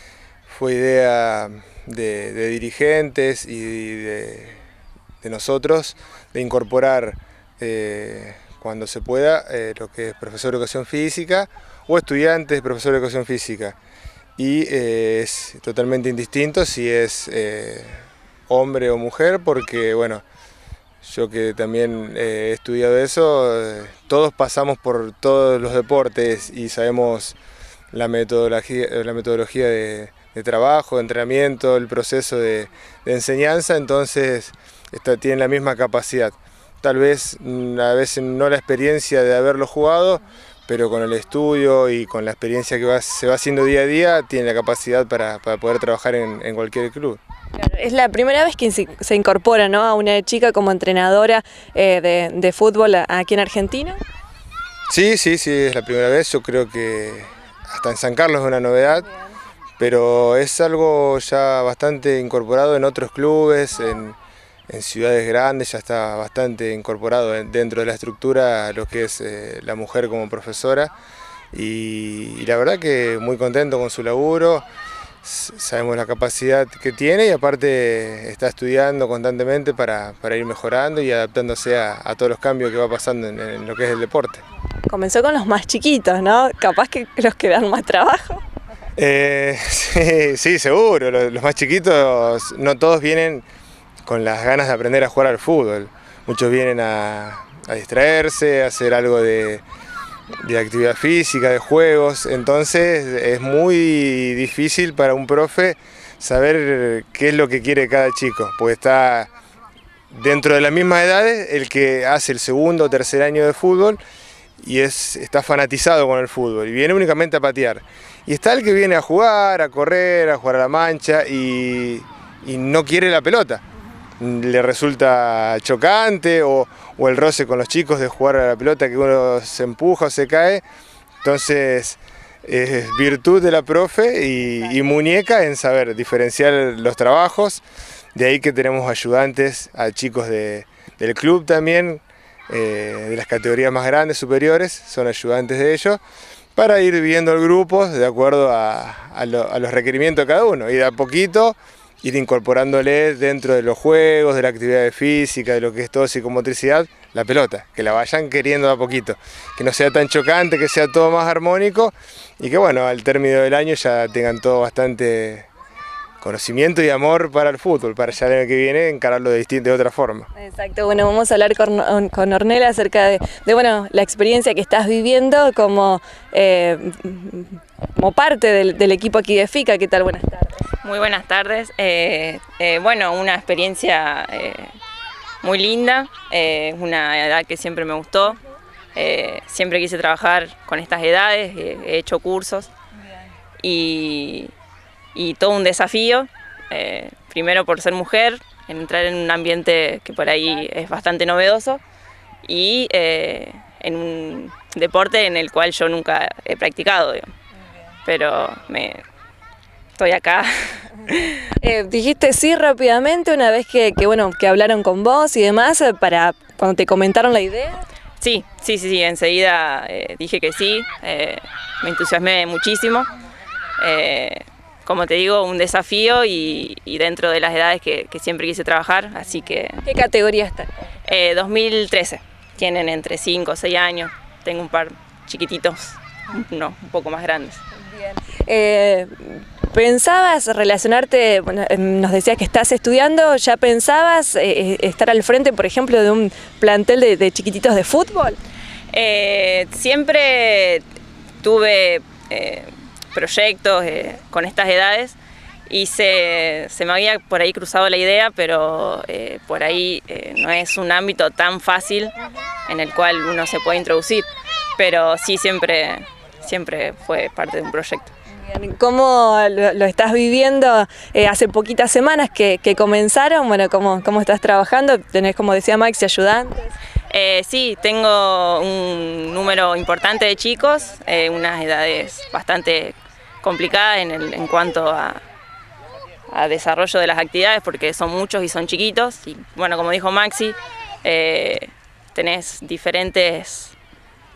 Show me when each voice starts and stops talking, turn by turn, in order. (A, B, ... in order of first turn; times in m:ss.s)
0:00.4-0:04.6 A
0:05.2-0:13.8 A
0:14.4-0:20.2 A
0:21.0-0:27.4 A
0:27.9-0:47.2 A
0:47.6-0:54.0 B
0:54.9-0:59.1 A
0:59.8-1:04.2 A
1:04.7-1:10.9 A
1:11.5-1:14.6 A
1:15.2-1:24.4 A
1:24.9-1:28.4 B
1:29.0-1:33.4 A
1:34.0-1:39.6 A
1:40.4-1:49.3 A
1:50.1-1:54.0 A
1:54.6-2:03.6 A
2:04.2-2:10.6 A
2:11.2-2:17.6 A
2:18.1-2:26.0 A
2:26.6-2:45.5 A
2:46.2-2:50.3 A
2:50.4-3:00.6 B
3:00.8-3:04.7 C
3:05.4-3:08.4 C
3:08.9-3:12.7 C
3:13.6-3:14.5 C
3:15.1-3:21.8 C
3:22.4-3:27.3 C
3:28.0-3:29.0 C
3:30.0-3:31.5 C
3:31.6-3:37.8 B
3:38.2-3:43.1 C
3:43.8-3:49.8 C
3:49.8-3:50.9 B
3:51.0-3:57.6 C
3:57.9-4:08.4 B
4:08.9-4:10.8 C
4:11.4-4:22.1 C
4:22.7-4:28.1 C
4:28.4-4:36.7 B
4:37.1-4:45.2 C
4:46.3-4:53.8 C